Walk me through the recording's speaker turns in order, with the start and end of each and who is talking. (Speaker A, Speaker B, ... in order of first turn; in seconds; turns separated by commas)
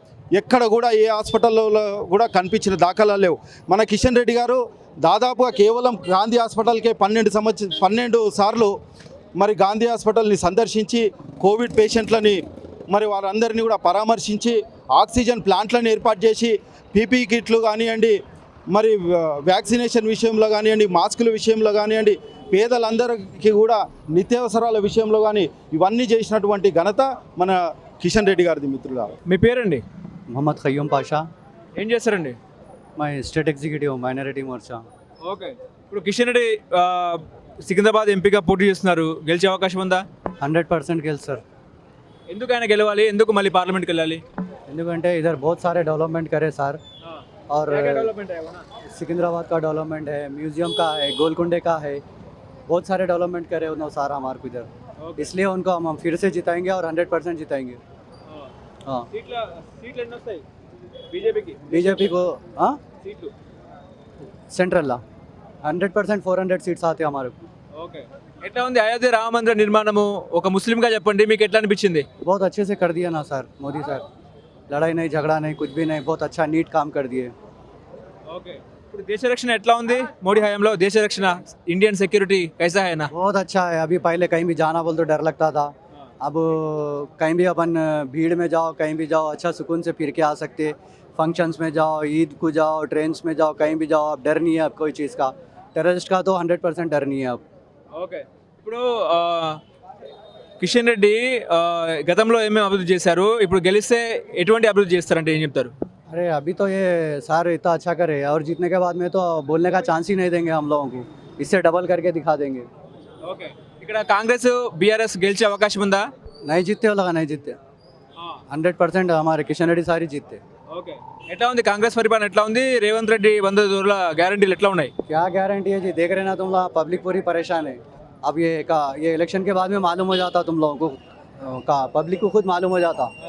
Speaker A: 0.3-8.7, Speaker A: 9.3-18.2, Speaker A: 18.7-29.1, Speaker B: 29.3-29.8, Speaker C: 30.3-31.2, Speaker B: 31.8-32.4, Speaker C: 33.0-34.8, Speaker B: 35.2-40.0, Speaker C: 40.4-41.4, Speaker B: 42.3-44.2, Speaker C: 44.7-46.8, Speaker B: 47.0-48.6, Speaker C: 47.5-48.1, Speaker C: 48.9-52.0, Speaker C: 52.7-57.8, Speaker B: 55.0-55.3, Speaker B: 59.1-60.4, Speaker B: 61.1-62.1, Speaker C: 61.7-62.8, Speaker B: 63.0-63.3, Speaker C: 64.5-65.0, Speaker C: 65.6-67.4, Speaker B: 67.7-72.0, Speaker C: 72.2-74.0, Speaker C: 74.7-77.3, Speaker B: 78.3-83.1, Speaker C: 83.1-97.4, Speaker B: 97.9-99.6, Speaker B: 100.6-105.7, Speaker C: 106.1-112.7, Speaker B: 113.2-116.1, Speaker C: 116.5-117.6, Speaker C: 118.5-120.4, Speaker B: 120.7-124.9, Speaker C: 125.0-133.1